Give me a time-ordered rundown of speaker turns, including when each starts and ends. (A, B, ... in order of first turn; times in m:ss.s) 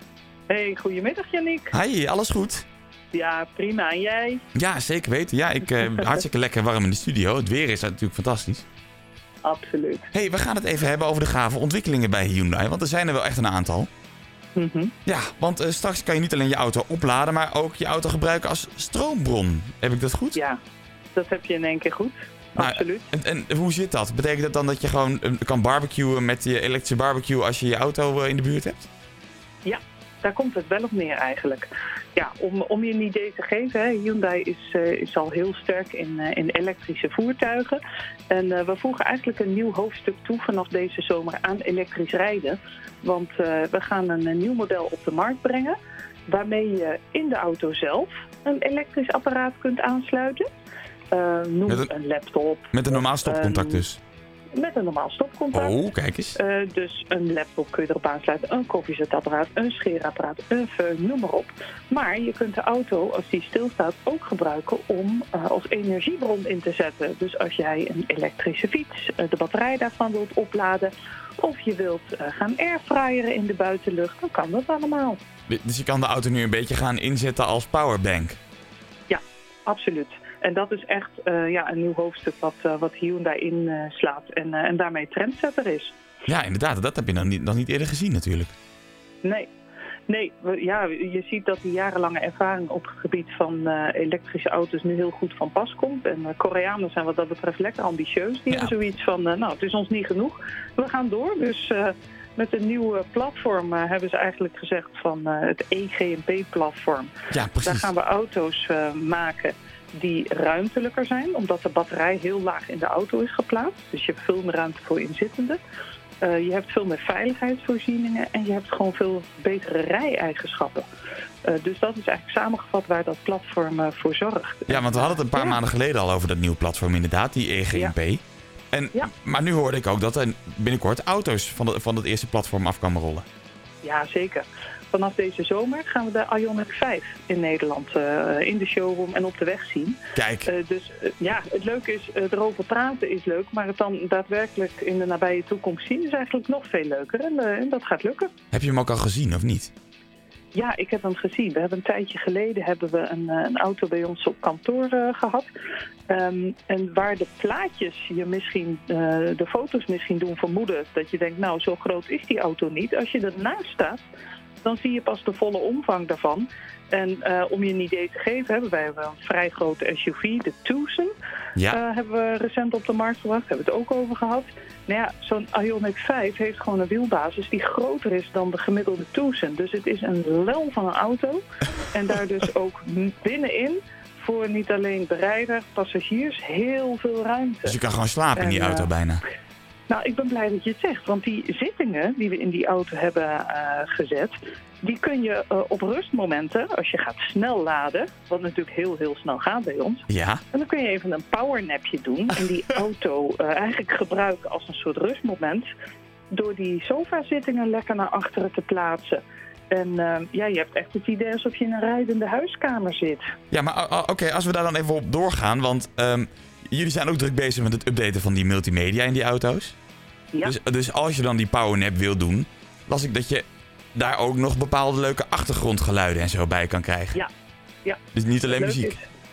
0:00.5-0:01.8 A
0:01.7-0:02.6 B
0:03.1-0:04.4 A
0:04.5-0:08.6 B
0:09.4-0:10.1 A
0:10.1-0:13.9 B
0:14.6-0:14.9 A
0:15.0-0:20.4 B
0:20.3-0:20.6 A
0:21.1-0:23.1 A
0:22.6-0:28.9 B
0:29.6-0:50.4 A
0:51.1-0:53.8 A
0:52.7-0:54.0 B
0:54.5-0:55.8 A
0:55.5-0:56.4 B
0:56.3-1:15.2 A
1:15.5-1:18.4 B
1:19.1-1:26.0 A
1:26.3-1:28.5 B
1:29.2-1:29.5 A
1:30.1-1:55.6 A
1:47.3-1:47.9 B
1:56.2-2:00.9 A
2:01.4-2:05.6 A
2:04.7-2:13.2 B
2:13.8-2:28.3 A
2:20.1-2:20.5 B
2:28.5-2:29.7 B
2:30.5-2:35.5 A
2:36.1-2:44.0 A
2:44.6-2:51.1 A
2:51.7-3:07.8 A
3:07.6-3:09.2 B
3:08.4-3:08.9 A
3:09.9-3:25.7 A
3:20.1-3:20.4 B
3:26.3-3:33.3 A
3:33.5-3:39.8 B
3:40.4-3:47.2 B
3:47.8-3:49.1 A
3:48.1-3:48.9 B